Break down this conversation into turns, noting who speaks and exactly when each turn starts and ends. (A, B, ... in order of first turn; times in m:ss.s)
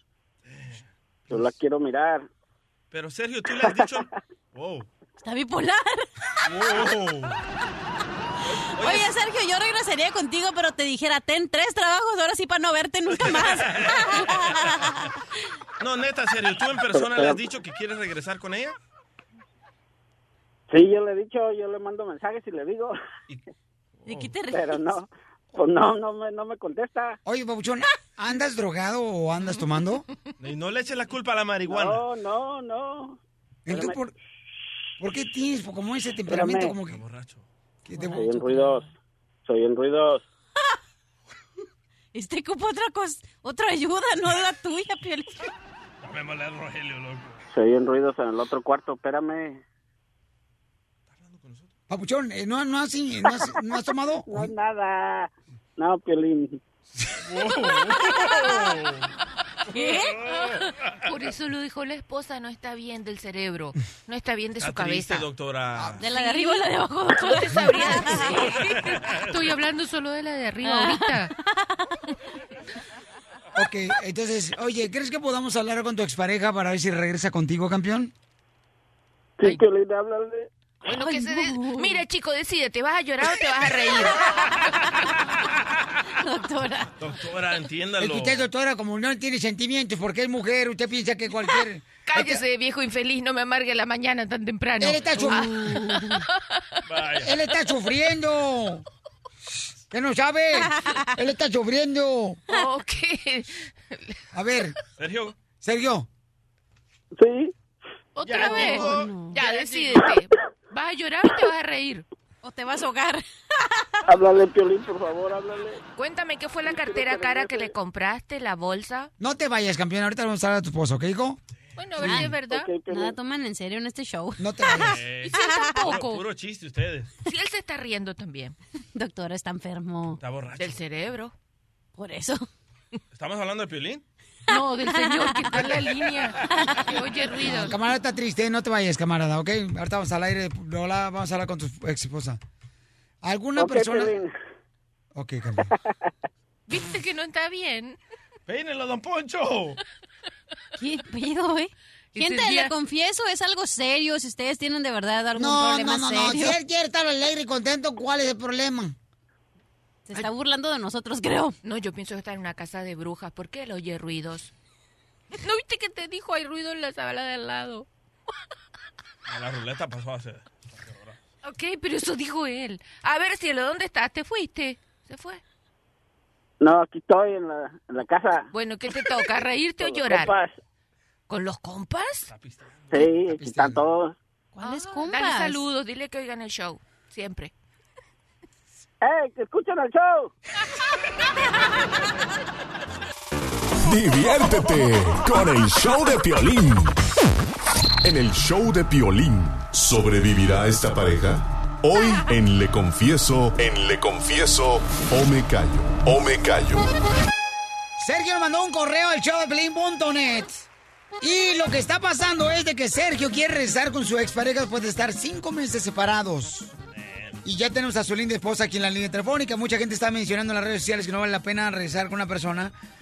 0:00.5-0:01.4 A
0:01.3-0:02.3 B
0:02.9-0:04.9 A
0:03.6-0:04.0 B
0:05.2-0:06.1 C
0:06.4-0:07.4 A
0:08.8-0:15.0 C
0:08.8-0:09.1 A
0:13.1-0:14.9 A
0:15.8-0:18.7 A
0:16.9-0:17.4 B
0:20.7-0:23.0 B
0:24.0-0:24.3 A
0:24.0-0:24.7 C
0:24.5-0:27.2 B
0:27.2-0:30.0 D
0:30.4-0:32.0 A
0:31.7-0:33.2 B
0:33.6-0:34.1 D
0:33.7-0:34.0 B
0:35.0-0:37.0 D
0:36.3-0:36.7 B
0:36.9-0:37.4 A
0:37.8-0:38.2 D
0:37.9-0:38.8 C
0:38.2-0:38.8 B
0:39.4-0:40.2 B
0:42.1-0:45.5 C
0:46.0-0:47.4 A
0:47.5-0:49.6 B
0:51.1-0:51.7 A
0:51.9-0:54.5 D
0:54.2-0:56.6 B
0:57.2-0:59.1 A
0:59.7-1:00.1 C
0:59.7-1:00.7 A
1:01.0-1:05.2 E
1:04.6-1:06.0 A
1:06.0-1:08.7 C
1:06.1-1:11.3 E
1:08.2-1:09.3 A
1:10.6-1:11.4 C
1:13.5-1:18.1 D
1:19.4-1:20.5 B
1:20.9-1:24.2 E
1:20.9-1:22.0 C
1:24.3-1:24.8 C
1:26.2-1:26.9 C
1:27.0-1:28.4 A
1:28.0-1:32.4 D
1:32.0-1:36.2 E
1:34.8-1:35.8 D
1:35.4-1:36.1 C
1:36.9-1:37.3 A
1:37.2-1:38.8 D
1:39.9-1:42.4 D
1:42.5-1:44.2 E
1:44.3-1:44.7 D
1:45.0-1:45.4 A
1:45.6-1:46.1 D
1:47.1-1:47.5 B
1:48.1-1:52.0 E
1:48.2-1:49.9 A
1:48.2-1:49.5 C
1:49.9-1:50.2 B
1:52.4-1:53.9 C
1:54.1-1:55.8 B
1:56.0-1:59.1 E
1:56.6-1:57.7 B
1:59.2-2:01.4 D
2:01.8-2:02.7 E
2:02.0-2:06.0 C
2:02.4-2:03.1 B
2:04.4-2:05.0 D
2:04.9-2:07.1 A
2:05.3-2:06.2 E
2:07.2-2:08.6 E
2:08.9-2:10.2 C
2:10.2-2:10.8 A
2:10.6-2:11.3 E
2:12.0-2:12.5 C
2:13.1-2:14.0 A
2:14.5-2:17.6 C
2:14.5-2:17.7 E
2:17.4-2:22.4 D
2:23.2-2:24.2 D
2:23.6-2:24.3 B
2:25.1-2:25.7 D
2:25.7-2:26.1 B
2:26.7-2:28.0 E
2:28.5-2:29.8 A
2:30.8-2:36.6 C
2:32.1-2:32.7 E
2:35.4-2:38.9 D
2:40.1-2:41.6 C
2:41.6-2:44.5 E
2:45.4-2:47.8 E
2:49.3-2:51.2 A
2:51.4-2:55.4 E
2:56.6-2:58.5 B
2:58.5-3:00.3 E
2:59.8-3:00.6 B
3:01.3-3:02.3 E
3:02.3-3:03.1 A
3:02.9-3:04.2 B
3:03.3-3:03.9 D
3:04.6-3:05.6 C
3:04.6-3:07.5 E
3:09.0-3:10.3 B
3:13.8-3:17.0 F
3:18.0-3:26.9 F
3:28.0-3:30.7 D
3:31.2-3:36.7 D
3:37.0-3:37.4 A
3:37.4-3:42.7 D